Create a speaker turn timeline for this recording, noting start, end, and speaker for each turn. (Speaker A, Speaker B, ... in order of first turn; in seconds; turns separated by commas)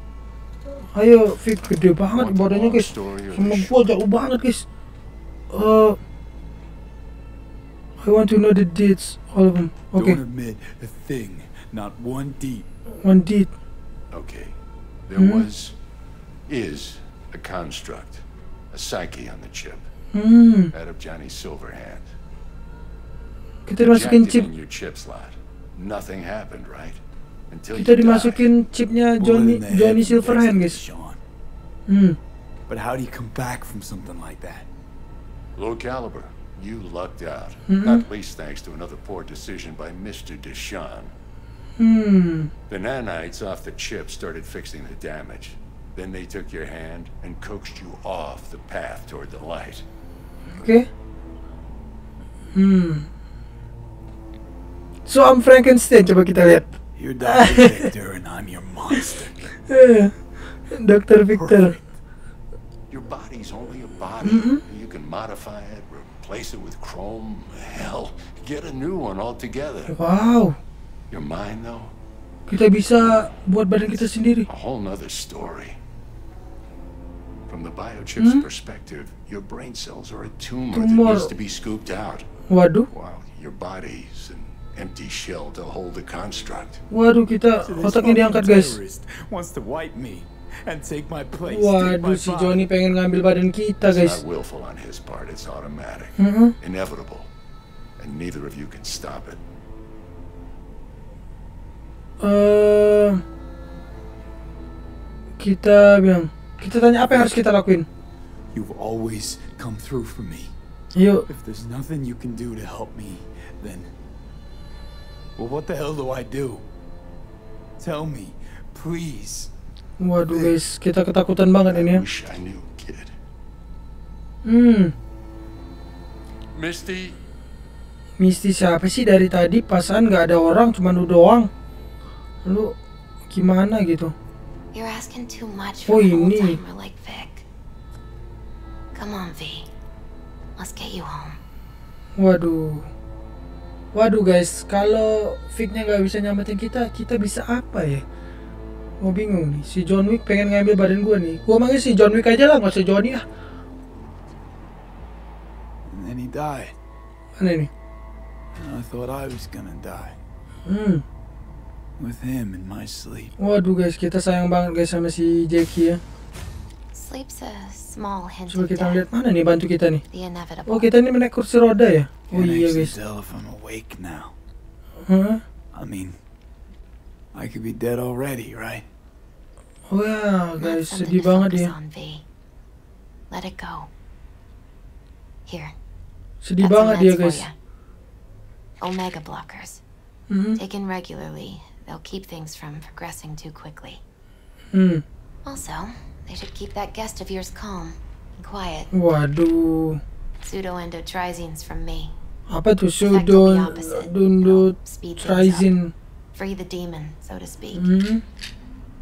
Speaker A: 0.9-4.6, Speaker B: 2.1-4.0, Speaker A: 5.5-6.0, Speaker A: 8.0-10.2, Speaker C: 9.9-12.7, Speaker A: 13.0-13.5, Speaker B: 14.1-14.5, Speaker B: 15.1-15.8, Speaker A: 15.2-15.4, Speaker B: 16.5-19.8, Speaker A: 20.1-20.7, Speaker B: 20.7-22.1, Speaker A: 23.7-24.5, Speaker B: 23.8-28.5, Speaker A: 27.7-30.8, Speaker C: 29.2-31.2, Speaker A: 31.9-32.2, Speaker C: 32.7-34.7, Speaker B: 35.5-41.1, Speaker A: 37.7-38.0, Speaker A: 41.8-42.5, Speaker B: 42.7-49.8, Speaker A: 50.5-50.9, Speaker A: 52.5-53.1, Speaker A: 55.1-57.8, Speaker C: 56.9-59.4, Speaker A: 59.7-60.1, Speaker A: 60.7-61.8, Speaker C: 61.3-61.8, Speaker B: 62.9-70.0, Speaker A: 64.2-64.6, Speaker A: 69.9-70.6, Speaker B: 71.1-72.0, Speaker A: 72.5-74.5, Speaker B: 73.0-73.2, Speaker B: 73.9-75.8, Speaker B: 77.5-82.3, Speaker A: 78.2-78.4, Speaker A: 80.7-81.3, Speaker A: 82.5-82.9, Speaker B: 82.9-86.8, Speaker A: 86.9-88.8, Speaker C: 87.6-92.6, Speaker A: 91.5-94.2, Speaker B: 93.8-97.3, Speaker A: 96.2-96.5, Speaker B: 98.0-99.4, Speaker A: 102.2-103.2, Speaker A: 105.4-107.9, Speaker C: 108.5-110.5, Speaker A: 110.9-111.2, Speaker C: 111.3-113.9, Speaker C: 115.3-116.6, Speaker C: 117.8-119.5, Speaker A: 120.0-122.0, Speaker C: 120.3-120.6, Speaker B: 121.7-123.2, Speaker A: 124.4-124.9, Speaker B: 126.5-127.2, Speaker A: 128.2-131.5, Speaker A: 132.4-132.8, Speaker A: 133.3-134.1, Speaker D: 134.7-137.4, Speaker A: 135.8-136.6, Speaker D: 138.9-139.7, Speaker D: 140.6-141.4, Speaker A: 142.2-142.8, Speaker A: 143.9-148.0, Speaker A: 149.0-153.2, Speaker C: 155.8-156.8, Speaker A: 157.4-157.7, Speaker C: 158.5-160.2, Speaker A: 160.7-161.0, Speaker C: 162.0-163.3, Speaker A: 163.4-166.0, Speaker D: 166.9-169.1, Speaker A: 168.5-170.0, Speaker D: 170.1-170.9, Speaker A: 170.7-172.9, Speaker C: 172.3-174.3, Speaker A: 175.1-175.4, Speaker C: 175.7-176.2, Speaker C: 177.3-178.8, Speaker A: 179.9-181.7, Speaker D: 180.6-182.2, Speaker D: 183.3-183.9, Speaker D: 185.5-185.7, Speaker A: 186.4-187.4, Speaker D: 186.6-187.5, Speaker D: 188.8-189.8, Speaker A: 190.3-190.6, Speaker D: 190.6-194.0, Speaker A: 194.7-195.0, Speaker D: 195.4-198.9, Speaker A: 198.9-200.0, Speaker D: 200.4-202.1, Speaker A: 202.5-205.9, Speaker D: 203.0-205.7, Speaker D: 206.3-207.9, Speaker A: 207.8-208.2